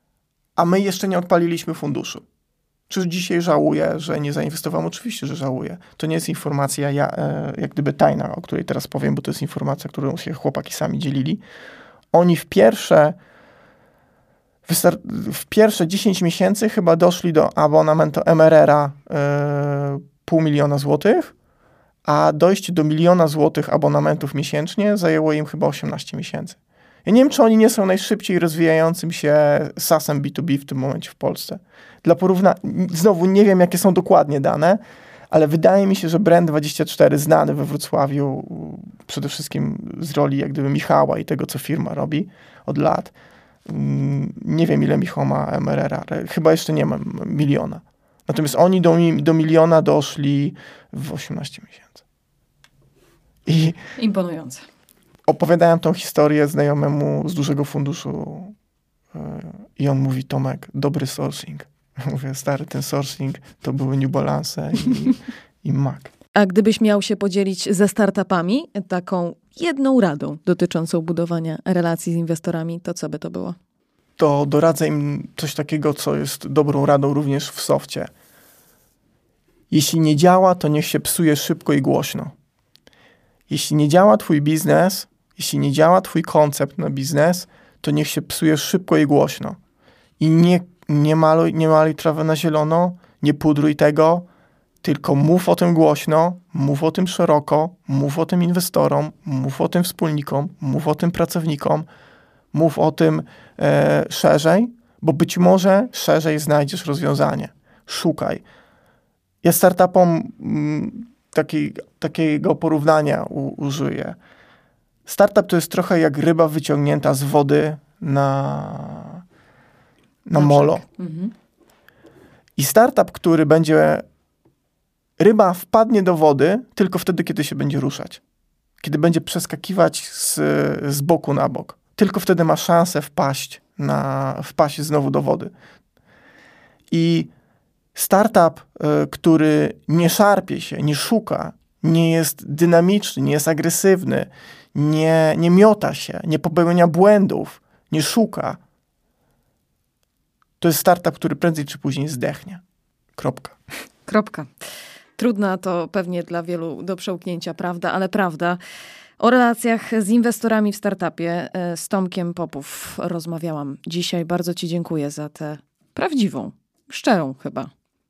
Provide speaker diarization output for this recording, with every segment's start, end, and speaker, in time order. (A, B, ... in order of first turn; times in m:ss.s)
0:00.6-0:02.2 A
0:02.9-0:11.4 A
0:12.1-0:13.2 A
0:14.6-0:21.3 A
0:22.0-0:43.1 A
0:43.6-0:52.0 A
0:53.4-0:53.8 A
0:54.0-0:54.6 B
0:55.3-0:58.5 A
0:59.1-1:06.1 A
1:06.4-1:13.6 B
1:14.2-1:18.1 A
1:19.7-1:22.3 A
1:23.5-1:29.6 A
1:30.2-1:34.3 A
1:34.8-1:41.9 A
1:42.5-1:48.4 A
1:49.4-1:54.2 A
1:55.0-1:59.2 A
2:00.2-2:00.8 A
2:00.3-2:01.3 B
2:02.6-2:04.0 A
2:05.2-2:08.2 A
2:08.8-2:15.5 A
2:16.9-2:17.3 A
2:17.9-2:28.6 A
2:30.6-2:32.6 A
2:33.2-2:33.6 A
2:34.1-2:34.5 B
2:35.2-2:38.6 B
2:39.2-2:47.7 B